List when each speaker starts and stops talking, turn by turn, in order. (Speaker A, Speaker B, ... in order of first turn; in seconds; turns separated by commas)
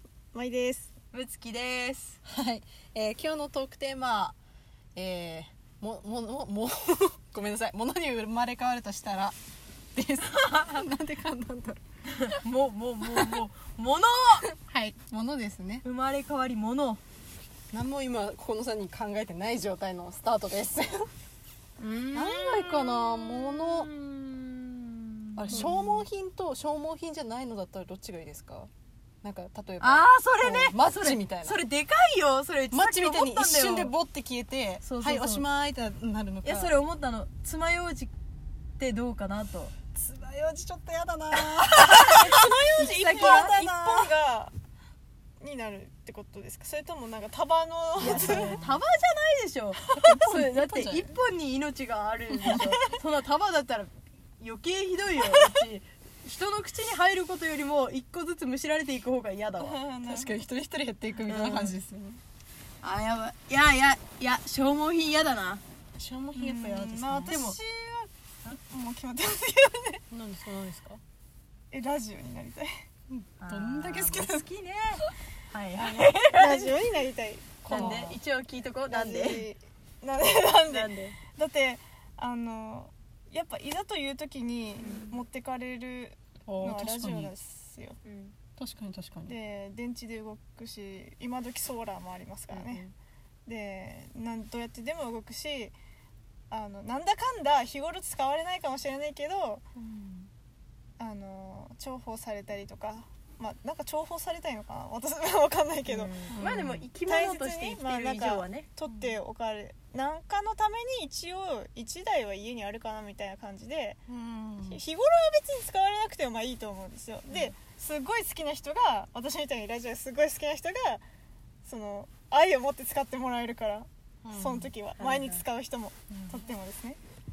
Speaker A: 0.3-0.9, Speaker B: 1.1-2.2, Speaker C: 2.2-4.4, Speaker C: 4.9-9.4, Speaker C: 9.9-11.8, Speaker B: 12.1-14.5, Speaker C: 14.5-15.8, Speaker B: 15.8-17.0, Speaker C: 17.7-21.1, Speaker B: 21.8-26.0, Speaker C: 22.1-23.9, Speaker C: 25.4-28.7, Speaker C: 29.2-31.6, Speaker B: 29.8-33.9, Speaker C: 32.7-36.7, Speaker B: 34.8-35.5, Speaker B: 36.4-38.1, Speaker B: 38.8-39.7, Speaker C: 39.9-44.1, Speaker B: 41.3-43.6, Speaker A: 42.2-44.5, Speaker A: 45.4-48.6, Speaker C: 48.0-48.8, Speaker B: 48.0-59.8, Speaker C: 49.9-51.1, Speaker C: 52.3-53.0, Speaker A: 59.6-60.4, Speaker C: 60.1-62.2, Speaker B: 61.2-61.8, Speaker B: 62.8-65.6, Speaker C: 66.0-67.4, Speaker A: 66.3-70.0, Speaker B: 67.3-67.6, Speaker C: 70.1-71.0, Speaker A: 71.7-72.7, Speaker C: 73.1-74.5, Speaker B: 73.4-77.0, Speaker A: 75.7-78.2, Speaker B: 77.7-79.5, Speaker C: 77.7-78.2, Speaker A: 78.9-88.0, Speaker B: 80.7-81.2, Speaker B: 84.8-85.2, Speaker C: 86.5-87.3, Speaker B: 88.0-88.3, Speaker C: 88.6-89.3, Speaker A: 89.2-92.9, Speaker C: 92.5-92.9, Speaker A: 93.5-95.7, Speaker A: 96.5-99.6, Speaker C: 99.8-100.3, Speaker A: 101.0-106.3, Speaker B: 105.9-108.7, Speaker C: 106.3-106.8, Speaker A: 107.0-114.0, Speaker C: 114.1-114.8, Speaker A: 114.7-121.0, Speaker A: 121.6-127.0, Speaker C: 124.2-124.7, Speaker B: 125.0-125.4